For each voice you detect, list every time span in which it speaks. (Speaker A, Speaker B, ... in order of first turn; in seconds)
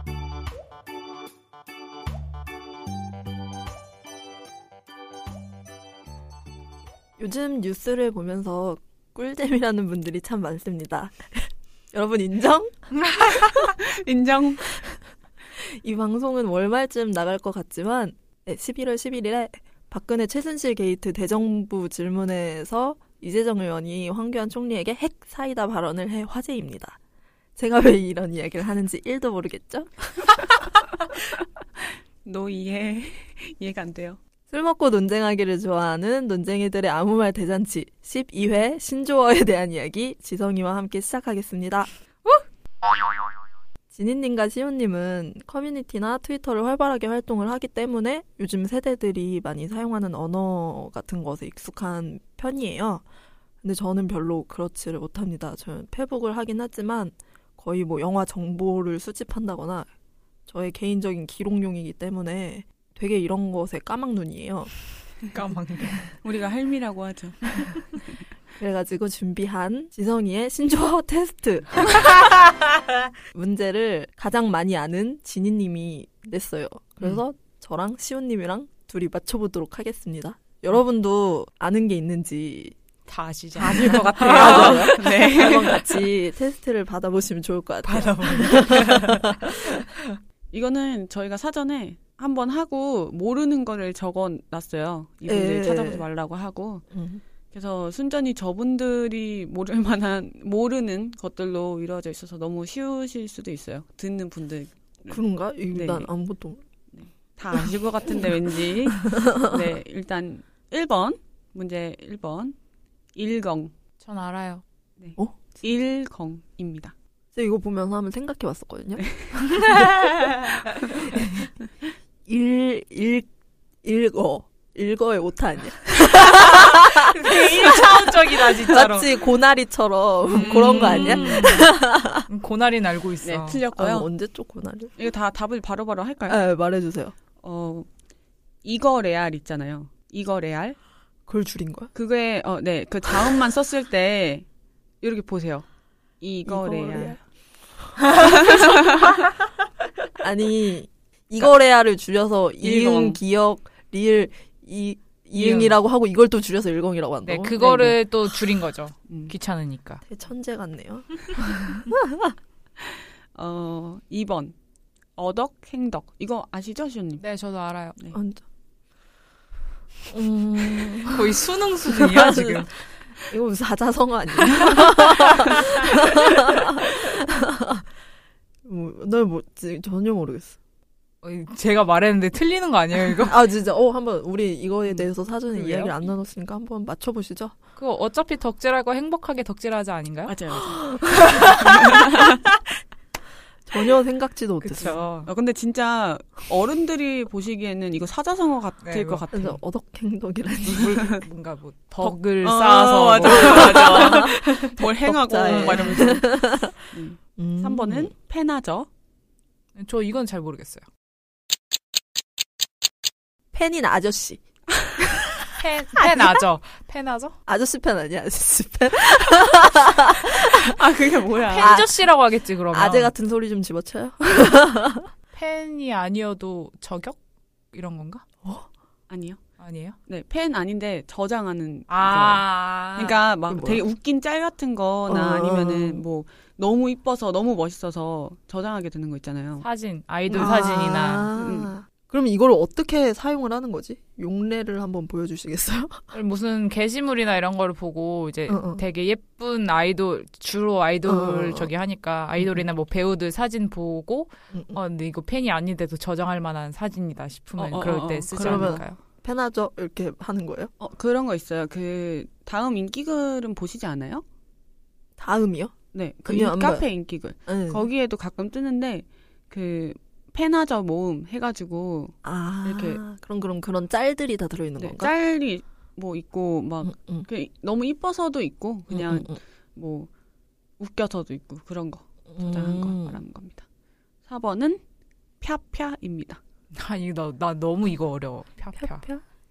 Speaker A: 7.2-12.9, 15.5-27.0, 27.6-30.1, 34.5-41.9, 43.9-53.0, 53.6-59.9, 60.5-64.7, 68.6-72.1, 73.3-82.7, 83.6-89.8, 95.2-96.0, 96.9-97.2, 105.1-106.6, 109.0-109.6, 117.3-119.9, 120.9-121.5, 122.2-123.3, 123.8-132.3, 133.7-134.9, 136.3-137.1, 141.3-141.9, 146.4-147.2, 148.2-148.8, 150.2-157.9, 160.0-162.3, 168.1-168.4, 170.1-172.7, 173.3-177.9, 178.6-180.6, 183.2-187.5, 190.8-191.5, 193.7-194.9, 199.3-201.0, 203.2-204.3, 205.1-206.8, 207.4-208.1, 213.5-214.4, 217.5-220.7, 221.5-222.0, 222.7-225.1, 233.5-233.8, 235.1-236.0, 240.3-246.0, 248.5-248.8, 251.0-251.7, 254.5-254.8, 258.4-260.7, 265.2-265.7, 266.2-266.9, 267.5-267.8, 272.2-275.1, 276.8-277.3, 278.9-279.4, 282.3-283.2, 288.8-289.2
Speaker B: 13.2-14.8, 32.2-34.2, 66.2-67.7, 83.6-86.0, 90.5-96.8, 97.5-105.2, 105.7-106.1, 106.9-112.5, 113.1-113.7, 115.0-116.9, 119.0-119.3, 130.3-131.5, 133.2-134.1, 135.0-136.4, 137.4-137.9, 138.6-140.8, 141.9-144.4, 145.0-145.7, 146.2-147.2, 148.2-149.1, 152.6-153.2, 163.3-164.5, 165.2-167.2, 190.3-190.9, 191.6-192.4, 195.2-199.6, 200.7-201.2, 202.0-206.3, 206.9-208.9, 220.5-221.8, 229.1-229.4, 230.1-232.4, 232.9-239.6, 241.3-241.7, 257.6-258.8, 260.8-264.2, 265.9-273.0, 274.8-280.1, 280.8-283.6, 284.2-284.8, 285.4-286.4
Speaker C: 65.3-66.1, 83.1-85.1, 87.8-90.1, 114.0-114.6, 119.4-120.6, 126.2-129.1, 130.3-131.7, 132.3-133.6, 155.4-155.7, 157.2-160.0, 167.2-168.0, 171.1-172.7, 175.3-175.9, 181.2-183.4, 185.5-185.9, 187.8-190.4, 191.2-191.8, 194.6-195.3, 198.8-199.3, 200.6-204.8, 209.8-210.8, 215.6-217.3, 221.5-223.1, 225.3-227.2, 227.7-228.2, 229.6-229.9, 231.9-233.2, 239.6-241.3, 246.1-259.0, 286.7-289.1